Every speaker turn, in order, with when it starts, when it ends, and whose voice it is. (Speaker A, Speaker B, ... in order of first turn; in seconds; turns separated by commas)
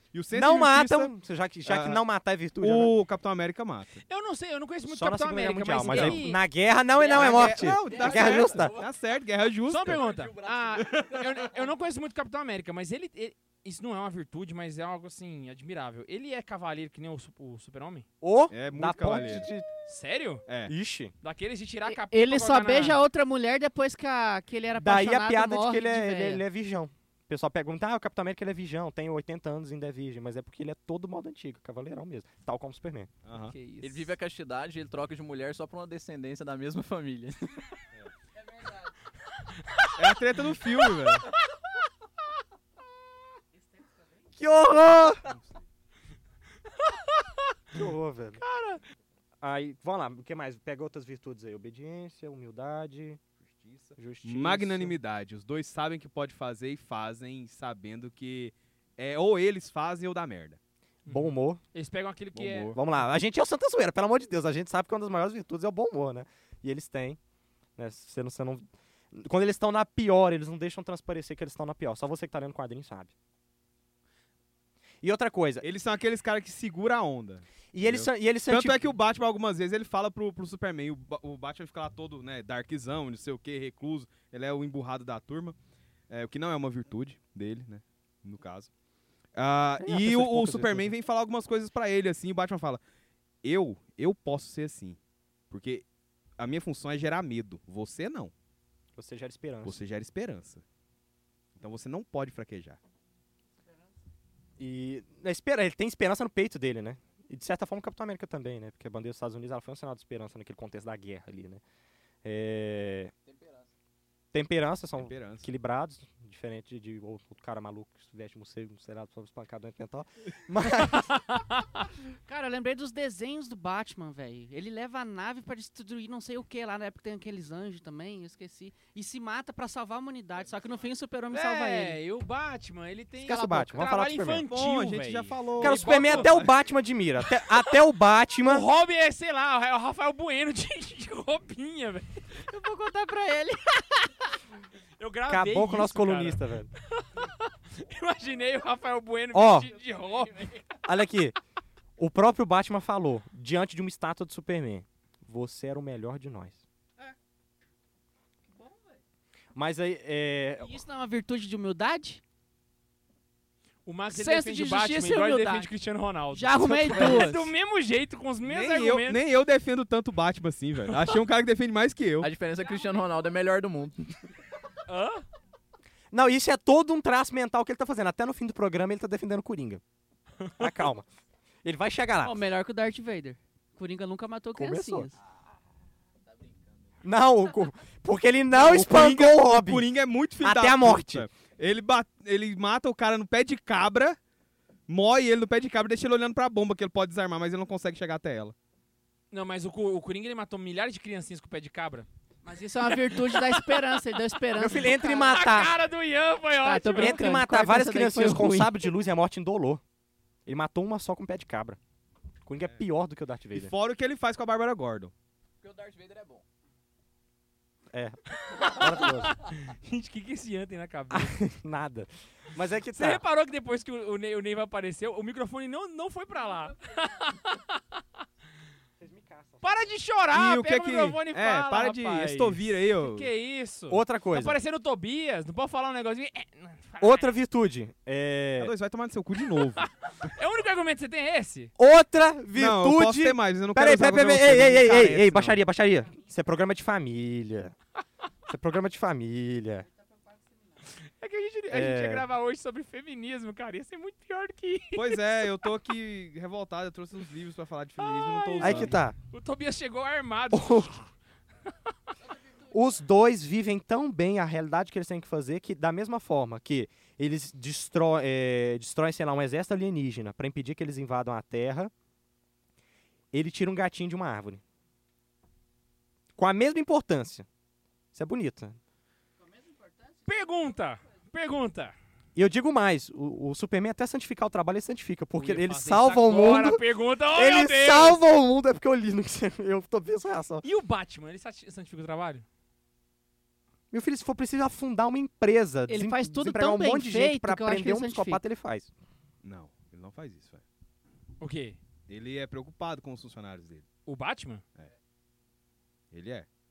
Speaker A: 0.1-1.1, Speaker B: 0.3-2.9, Speaker A: 1.7-2.0, Speaker A: 2.6-4.0, Speaker C: 4.1-6.4, Speaker B: 4.9-8.8, Speaker A: 5.9-6.2, Speaker D: 7.0-8.9, Speaker A: 7.1-10.0, Speaker C: 9.7-18.1, Speaker D: 9.9-11.2, Speaker B: 18.2-19.7, Speaker A: 18.5-19.5, Speaker C: 19.9-20.4, Speaker A: 20.5-20.7, Speaker B: 20.7-21.1, Speaker C: 21.2-23.0, Speaker E: 21.9-26.4, Speaker B: 24.8-33.1, Speaker A: 33.2-33.5, Speaker C: 33.3-34.1, Speaker D: 33.8-37.5, Speaker A: 40.0-41.3, Speaker B: 44.4-45.3, Speaker A: 45.3-45.6, Speaker C: 46.8-47.5, Speaker B: 47.7-48.4, Speaker C: 48.4-48.8, Speaker B: 49.4-53.2, Speaker A: 53.5-60.6, Speaker B: 54.0-55.0, Speaker C: 61.1-62.7, Speaker B: 61.1-61.6, Speaker A: 62.4-62.8, Speaker B: 62.7-67.2, Speaker B: 67.8-73.1, Speaker B: 75.0-75.7, Speaker A: 75.6-85.6, Speaker B: 77.7-78.8, Speaker A: 86.1-88.7, Speaker A: 89.3-92.8, Speaker B: 89.8-90.9, Speaker A: 93.4-95.0, Speaker A: 95.5-95.8, Speaker A: 96.4-98.3, Speaker B: 99.0-99.8, Speaker A: 99.6-100.6, Speaker A: 101.6-102.8, Speaker B: 104.6-111.6, Speaker B: 112.2-113.1, Speaker D: 113.3-113.7, Speaker B: 114.3-121.2, Speaker A: 115.0-115.5, Speaker C: 120.9-121.8, Speaker E: 122.3-132.0, Speaker C: 131.3-136.5, Speaker B: 133.2-134.4, Speaker A: 134.5-136.5, Speaker B: 135.6-138.7, Speaker C: 137.3-137.8, Speaker C: 138.4-142.2, Speaker E: 142.4-144.1, Speaker C: 145.0-150.8, Speaker B: 145.3-146.7, Speaker B: 149.3-149.7, Speaker B: 150.8-151.3, Speaker B: 152.0-156.6, Speaker B: 159.6-160.8, Speaker E: 160.6-162.2, Speaker C: 163.9-169.2, Speaker E: 164.1-165.7, Speaker E: 166.3-167.5, Speaker B: 166.6-167.4, Speaker A: 168.4-172.3, Speaker D: 172.2-174.2, Speaker C: 174.9-175.2, Speaker B: 176.1-179.8, Speaker B: 180.6-181.1, Speaker B: 181.6-182.4, Speaker E: 182.2-185.1, Speaker B: 184.6-185.1, Speaker D: 186.3-186.7, Speaker B: 187.0-189.9, Speaker A: 188.5-194.2, Speaker B: 190.4-191.3, Speaker A: 194.9-198.6, Speaker C: 199.3-202.1, Speaker E: 202.4-205.6, Speaker C: 202.8-204.4, Speaker B: 204.6-205.8, Speaker C: 204.9-207.2, Speaker E: 206.6-208.9, Speaker B: 206.9-209.8, Speaker B: 210.5-211.8, Speaker B: 212.4-213.7, Speaker A: 213.5-215.1, Speaker D: 215.6-216.4, Speaker B: 217.9-219.4, Speaker C: 218.4-221.4, Speaker B: 221.1-223.2, Speaker C: 222.9-227.8, Speaker B: 229.0-229.8, Speaker C: 229.6-237.3, Speaker A: 230.3-233.3, Speaker B: 233.9-234.6, Speaker B: 237.0-238.7, Speaker A: 238.6-239.9, Speaker C: 239.7-241.7, Speaker B: 241.8-247.8, Speaker A: 242.6-245.6, Speaker B: 248.5-249.9, Speaker C: 250.8-255.2, Speaker B: 251.7-252.3, Speaker A: 254.9-259.0, Speaker C: 258.0-261.1, Speaker B: 258.6-259.2, Speaker B: 260.5-261.1, Speaker B: 262.7-271.9, Speaker B: 273.3-274.6, Speaker B: 276.4-277.5, Speaker B: 278.1-278.8, Speaker C: 280.2-281.9, Speaker B: 282.4-290.6, Speaker C: 285.4-288.2, Speaker C: 290.6-292.5, Speaker B: 293.9-298.9, Speaker E: 295.9-298.4, Speaker A: 299.4-300.6, Speaker C: 301.4-301.8, Speaker A: 302.1-303.9, Speaker C: 304.1-304.6, Speaker A: 306.1-306.5